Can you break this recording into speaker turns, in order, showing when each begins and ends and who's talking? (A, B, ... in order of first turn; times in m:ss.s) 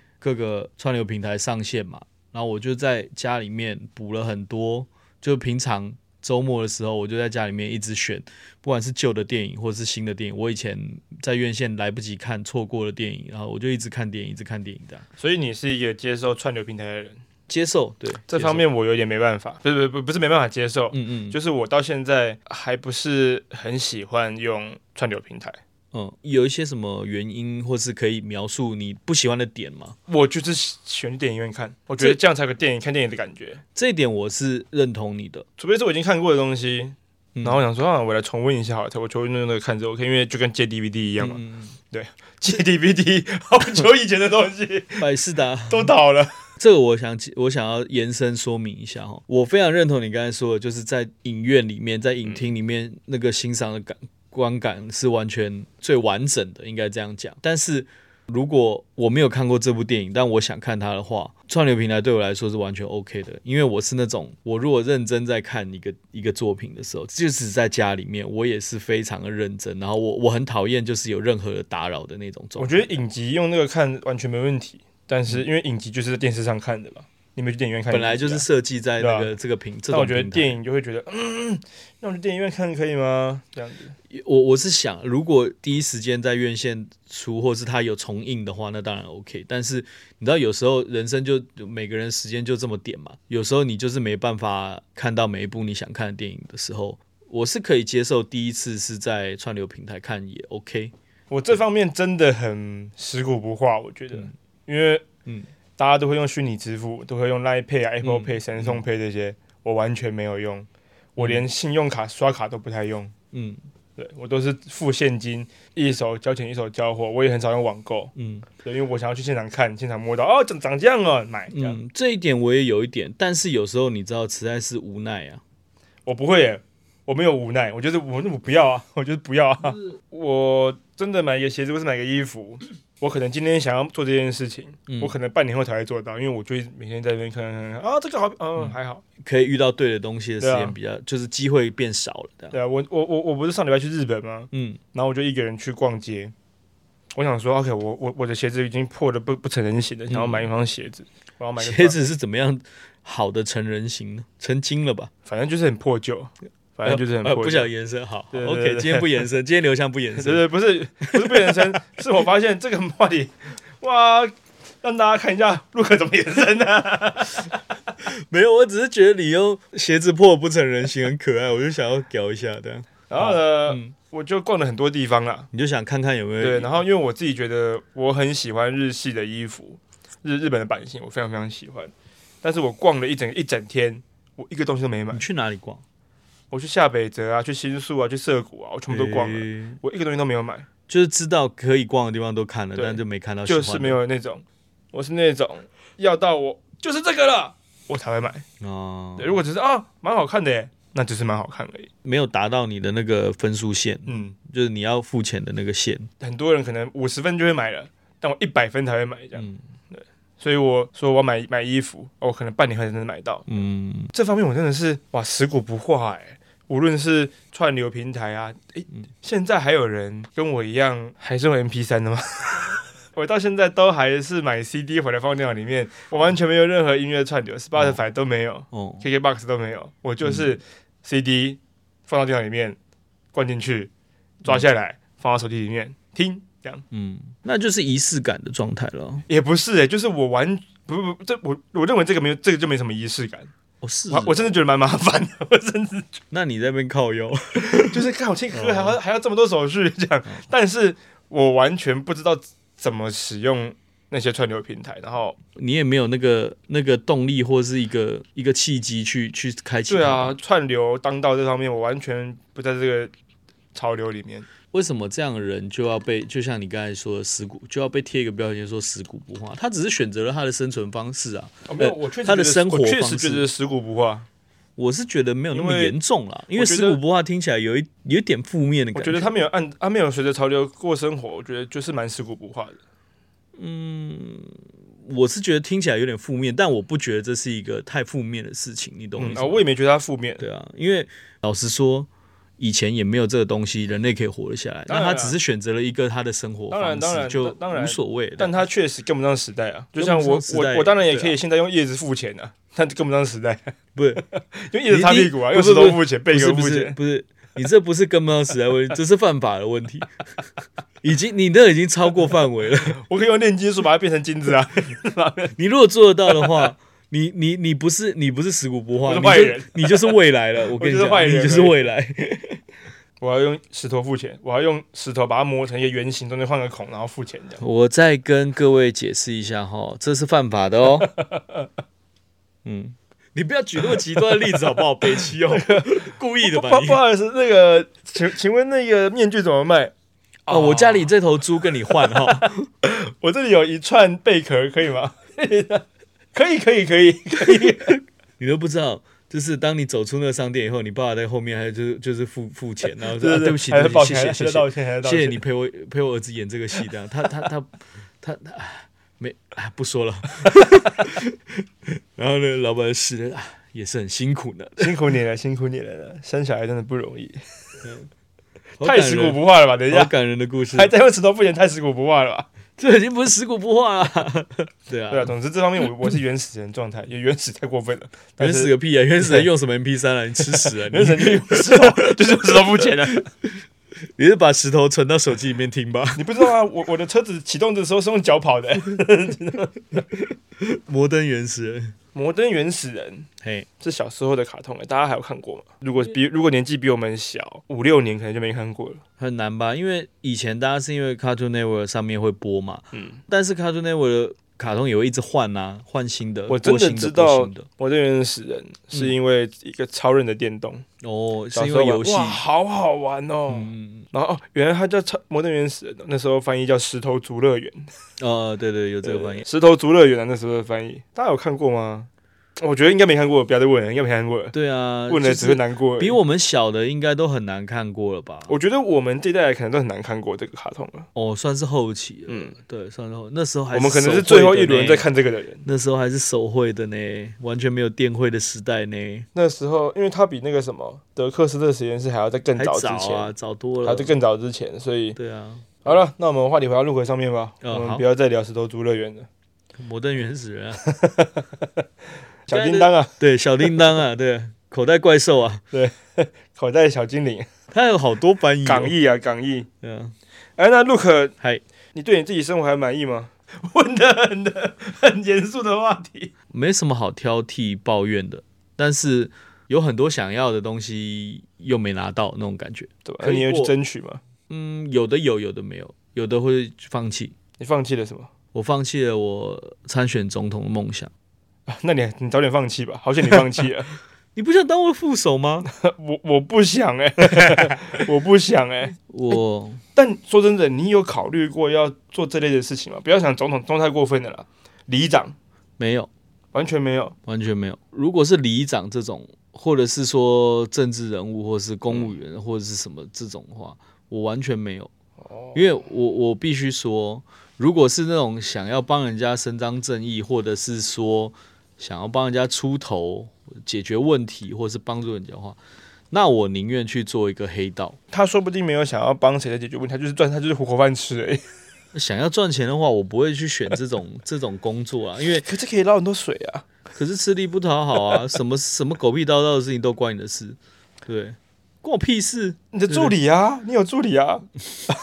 0:00.2-0:15.1 A
0:15.2-0:17.2 B
0:17.5-0:18.6 A
0:18.3-0:25.6 B
0:20.9-0:21.4 A
0:25.9-0:30.0 A
0:30.1-0:33.6 B
0:33.8-0:35.5 A
0:35.6-0:45.1 B
0:37.4-0:37.6 A
0:41.2-0:41.8 A
0:45.0-0:45.9 A
0:45.7-0:46.3 B
0:46.6-1:12.9 A
1:12.6-1:18.5 B
1:17.9-1:20.6 A
1:19.0-1:19.3 B
1:19.9-1:24.0 B
1:24.1-1:40.9 A
1:41.3-1:45.1 B
1:45.8-1:53.1 B
1:48.0-1:48.8 A
1:51.2-1:51.4 A
1:53.3-1:53.6 A
1:54.0-2:01.8 B
1:58.2-1:58.5 A
2:01.5-2:05.4 A
2:06.1-2:19.0 B
2:14.9-2:15.2 A
2:18.6-2:22.6 A
2:20.4-2:20.8 B
2:22.5-2:26.3 B
2:24.5-2:24.8 A
2:27.2-2:32.0 B
2:30.1-2:30.5 A
2:31.6-2:35.1 A
2:35.3-2:37.7 B
2:36.8-2:40.4 A
2:38.3-2:39.2 B
2:40.2-2:47.5 B
2:41.1-2:41.7 A
2:48.0-2:53.9 A
2:53.1-2:55.5 B
2:55.5-2:56.7 A
2:56.4-3:05.2 B
3:05.1-3:05.8 A
3:06.5-3:10.7 B
3:08.9-3:09.8 A
3:10.9-3:14.0 A
3:12.8-3:18.4 B
3:18.6-3:19.4 A
3:19.2-3:21.9 B
3:22.0-3:26.1 A
3:24.1-3:24.4 B
3:26.2-3:33.5 B
3:29.4-3:29.6 A
3:33.5-3:34.1 A
3:34.1-3:52.8 B
3:48.7-3:49.0 A
3:50.2-3:50.5 A
3:53.3-3:53.9 B
3:54.4-3:56.8 B
3:56.9-3:59.2 A
3:59.3-4:03.5 B
4:03.8-4:04.4 A
4:04.1-4:06.1 B
4:06.3-4:09.0 A
4:07.6-4:15.4 B
4:15.6-4:20.4 A
4:19.9-4:23.1 B
4:23.7-4:24.5 B
4:24.7-4:33.5 A
4:31.7-4:34.3 B
4:34.8-4:39.3 A
4:35.5-4:36.0 B
4:36.6-4:37.0 B
4:39.0-4:42.8 B
4:43.6-4:49.6 A
4:49.2-4:50.4 B
4:50.4-4:58.6 A
4:54.9-4:55.4 B
4:56.7-5:07.0 B
5:00.0-5:01.4 A
5:04.0-5:04.2 A
5:04.9-5:10.1 A
5:11.0-5:13.0 A
5:12.9-5:15.5 B
5:15.6-5:22.6 A
5:16.3-5:16.7 B
5:19.0-5:20.2 B
5:20.7-5:21.9 B
5:23.2-5:27.6 B
5:27.6-5:31.1 A
5:31.0-5:31.7 B
5:32.6-5:37.0 A
5:35.5-5:35.9 B
5:36.4-5:39.9 B
5:40.5-5:41.1 B
5:40.5-5:42.7 A
5:41.9-5:48.0 B
5:48.4-6:05.0 A
5:53.1-5:55.4 B
6:04.8-6:07.4 B
6:07.8-6:08.1 A
6:08.8-6:09.4 A
6:08.8-6:10.1 B
6:09.9-6:10.9 A
6:10.7-6:12.5 B
6:12.8-6:15.3 A
6:15.1-6:19.5 B
6:18.4-6:22.4 A
6:20.5-6:23.3 B
6:24.2-6:26.4 A
6:26.2-6:30.0 B
6:30.1-6:32.0 A
6:32.2-6:33.3 B
6:33.4-6:33.7 A
6:33.8-6:39.0 B
6:39.2-6:47.7 A
6:42.9-6:43.2 B
6:46.5-6:50.8 B
6:51.0-6:52.4 A
6:51.5-6:57.9 B
6:53.5-6:54.1 A
6:58.2-6:59.4 A
6:59.0-7:04.6 B
7:04.5-7:08.5 A
7:05.1-7:06.2 B
7:08.5-7:11.1 B
7:11.2-7:15.0 A
7:12.3-7:12.6 B
7:13.7-7:15.6 B
7:15.6-7:19.3 A
7:19.4-7:23.3 B
7:22.6-7:24.1 A
7:23.8-7:25.2 B
7:25.2-7:25.9 A
7:25.8-7:29.3 B
7:27.6-7:28.0 A
7:29.8-7:30.8 A
7:30.8-7:31.7 B
7:32.5-7:33.1 B
7:32.5-7:35.6 A
7:35.7-7:37.5 B
7:37.7-7:38.9 A
7:38.6-7:39.7 B
7:39.8-7:40.2 A
7:40.6-7:41.4 B
7:41.9-7:46.3 B
7:46.5-7:53.7 A
7:53.1-7:54.2 B
7:54.5-7:57.4 A
7:57.6-7:58.3 B
7:58.5-8:01.1 A
8:01.7-8:03.9 B
8:04.4-8:05.7 A
8:05.7-8:09.0 B
8:09.1-8:09.8 A
8:10.0-8:15.4 B
8:15.8-8:16.1 A
8:16.5-8:17.2 B
8:17.3-8:24.9 A
8:25.2-8:25.7 B
8:25.5-8:35.6 A
8:36.1-8:38.0 A
8:38.1-8:41.4 B
8:41.9-8:45.5 A
8:45.4-8:46.7 B
8:47.0-8:53.2 A
8:52.7-8:54.5 B